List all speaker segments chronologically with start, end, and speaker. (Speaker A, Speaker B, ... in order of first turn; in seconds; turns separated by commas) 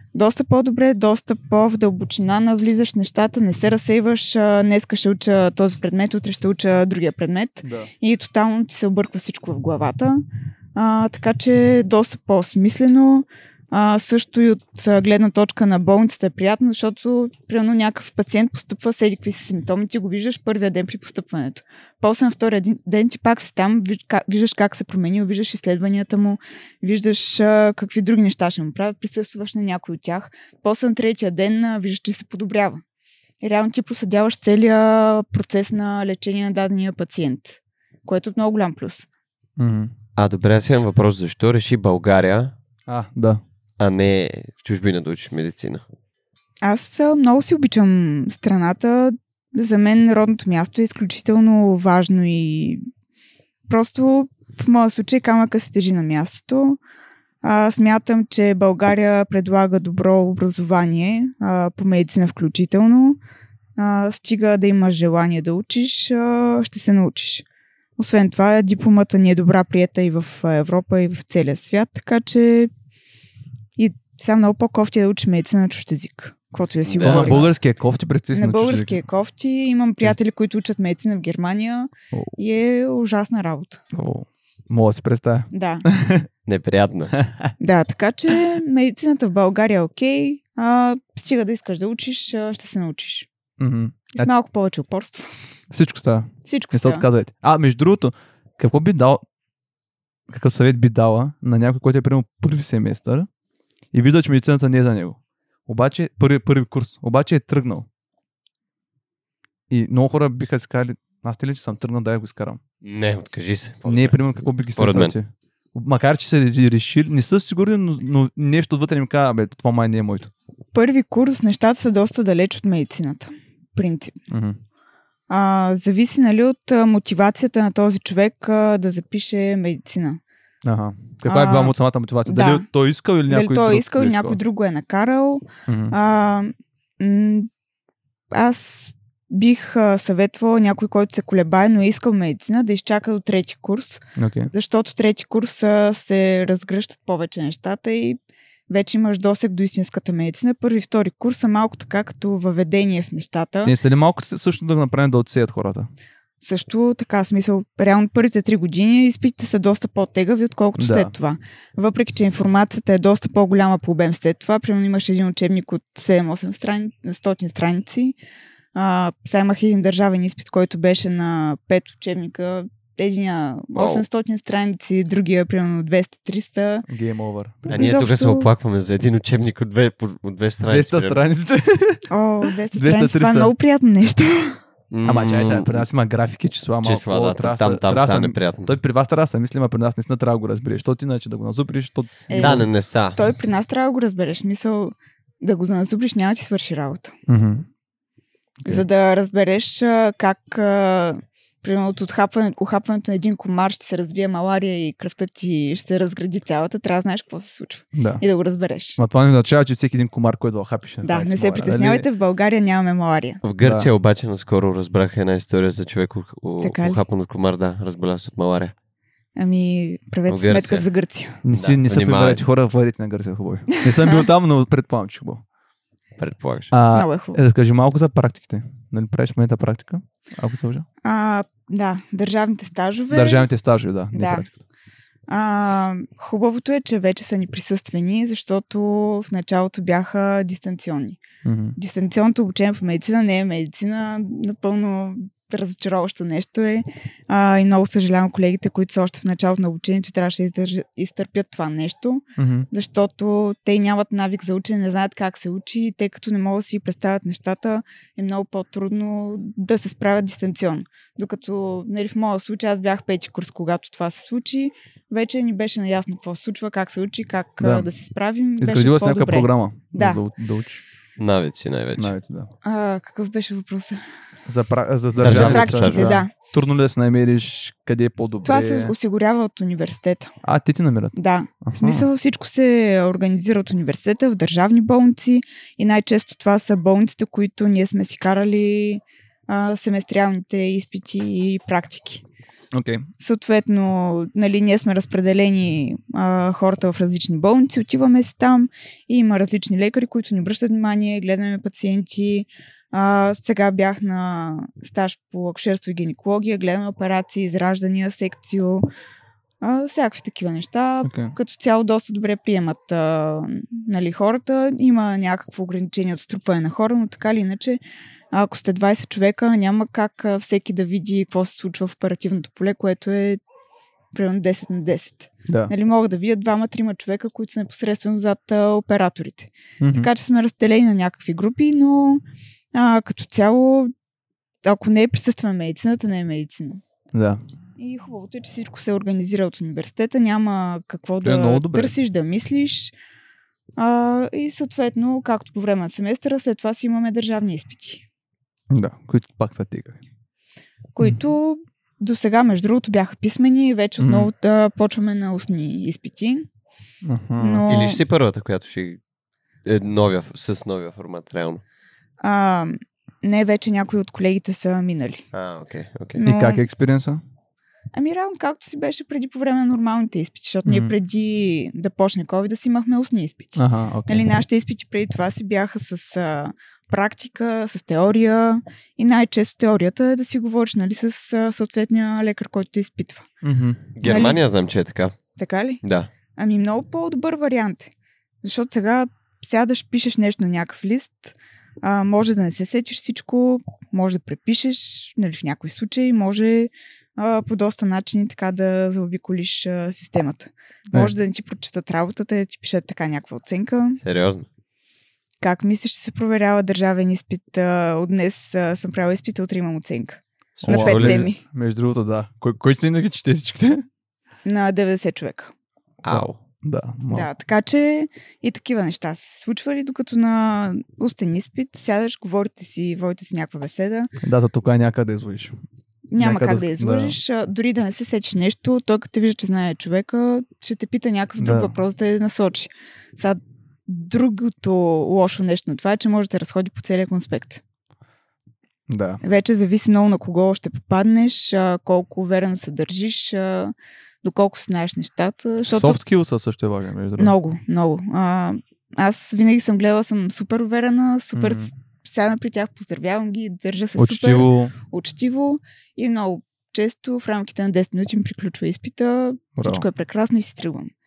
Speaker A: 0.1-10.2, Speaker B: 7.6-7.9, Speaker A: 10.7-32.8, Speaker A: 33.4-39.1, Speaker B: 39.6-39.9, Speaker C: 40.1-42.5, Speaker B: 42.9-43.4, Speaker C: 43.8-45.8, Speaker A: 46.6-52.9, Speaker A: 53.7-56.8, Speaker A: 57.4-63.2, Speaker A: 63.8-67.4, Speaker A: 68.0-72.7, Speaker A: 73.8-77.5, Speaker C: 76.8-77.4, Speaker B: 77.0-79.0, Speaker A: 78.3-83.8, Speaker B: 83.9-86.3, Speaker A: 85.5-85.8, Speaker C: 86.5-87.1, Speaker B: 87.1-87.5, Speaker A: 87.6-93.3, Speaker B: 93.6-94.3, Speaker A: 94.1-95.3, Speaker B: 95.7-99.2, Speaker A: 96.4-97.0, Speaker B: 100.3-103.3, Speaker B: 103.9-107.9, Speaker B: 109.7-112.6, Speaker C: 112.8-115.1, Speaker B: 113.8-120.3, Speaker A: 120.7-124.2, Speaker B: 124.3-124.6, Speaker A: 125.3-130.2, Speaker B: 130.6-134.4, Speaker A: 131.2-132.7, Speaker A: 133.3-137.5, Speaker B: 135.7-135.9, Speaker A: 138.3-148.2, Speaker B: 144.2-144.5, Speaker A: 148.7-153.7, Speaker B: 153.6-155.9, Speaker A: 156.4-168.2, Speaker B: 160.8-161.1, Speaker A: 168.7-176.8, Speaker C: 173.7-174.0, Speaker B: 176.9-177.8, Speaker A: 177.7-178.5, Speaker C: 177.7-181.2, Speaker B: 180.7-182.1, Speaker A: 182.1-184.6, Speaker B: 182.7-183.5, Speaker C: 184.9-185.8, Speaker B: 185.0-192.7, Speaker C: 186.8-188.7, Speaker A: 192.3-197.2, Speaker C: 192.3-193.2, Speaker B: 197.3-197.7, Speaker A: 198.6-209.0, Speaker B: 207.9-208.2, Speaker B: 209.0-212.1, Speaker A: 211.0-213.4, Speaker C: 213.4-218.7, Speaker B: 213.6-213.9, Speaker A: 216.6-217.0, Speaker A: 219.3-221.4, Speaker C: 220.3-220.8, Speaker B: 221.4-225.4, Speaker C: 221.5-222.4, Speaker A: 223.7-224.2, Speaker C: 226.2-226.7, Speaker B: 226.7-230.8, Speaker A: 226.9-227.4, Speaker A: 231.0-233.5, Speaker B: 233.1-234.6, Speaker A: 234.1-234.5, Speaker A: 235.3-241.2, Speaker B: 241.4-241.8, Speaker A: 241.8-270.2, Speaker B: 252.4-252.7, Speaker B: 267.6-267.9, Speaker B: 268.6-270.8, Speaker C: 271.2-272.1, Speaker B: 272.0-272.5, Speaker A: 272.6-274.0, Speaker B: 274.5-278.9, Speaker C: 275.2-276.2, Speaker A: 275.2-276.3, Speaker A: 278.4-280.3, Speaker B: 280.4-282.1, Speaker A: 281.1-292.2, Speaker B: 292.7-293.1, Speaker A: 293.2-308.9, Speaker A: 309.6-317.8, Speaker B: 311.0-311.3, Speaker A: 318.3-323.4, Speaker A: 324.1-332.2, Speaker B: 329.8-330.1, Speaker A: 332.7-333.9, Speaker A: 334.6-336.8, Speaker B: 337.1-337.4, Speaker A: 337.8-342.9, Speaker B: 341.2-341.9, Speaker A: 343.8-348.0, Speaker B: 348.7-350.0, Speaker A: 350.9-356.4, Speaker B: 354.0-354.3, Speaker B: 357.0-357.7, Speaker A: 357.4-358.0, Speaker C: 357.7-359.0, Speaker C: 359.6-361.6, Speaker A: 362.2-365.2, Speaker C: 365.3-366.2, Speaker A: 366.1-366.6, Speaker B: 366.2-367.2, Speaker A: 367.9-383.3, Speaker B: 370.6-370.9, Speaker B: 373.6-374.2, Speaker B: 383.4-383.8, Speaker C: 383.9-385.2, Speaker A: 384.0-384.4, Speaker A: 385.4-385.8, Speaker C: 385.8-386.1, Speaker A: 386.3-404.0, Speaker C: 404.0-404.5, Speaker A: 405.4-411.4, Speaker C: 410.6-411.3, Speaker B: 410.6-413.9, Speaker A: 414.4-415.5, Speaker C: 416.0-416.4, Speaker B: 416.1-417.3, Speaker A: 417.1-424.1, Speaker B: 424.2-425.6, Speaker A: 426.1-437.6, Speaker B: 426.2-427.2, Speaker B: 431.4-431.7, Speaker B: 438.9-439.2, Speaker A: 439.2-446.0, Speaker B: 445.7-447.3, Speaker A: 447.2-460.9, Speaker B: 451.3-451.7, Speaker B: 453.9-454.7, Speaker B: 459.6-459.9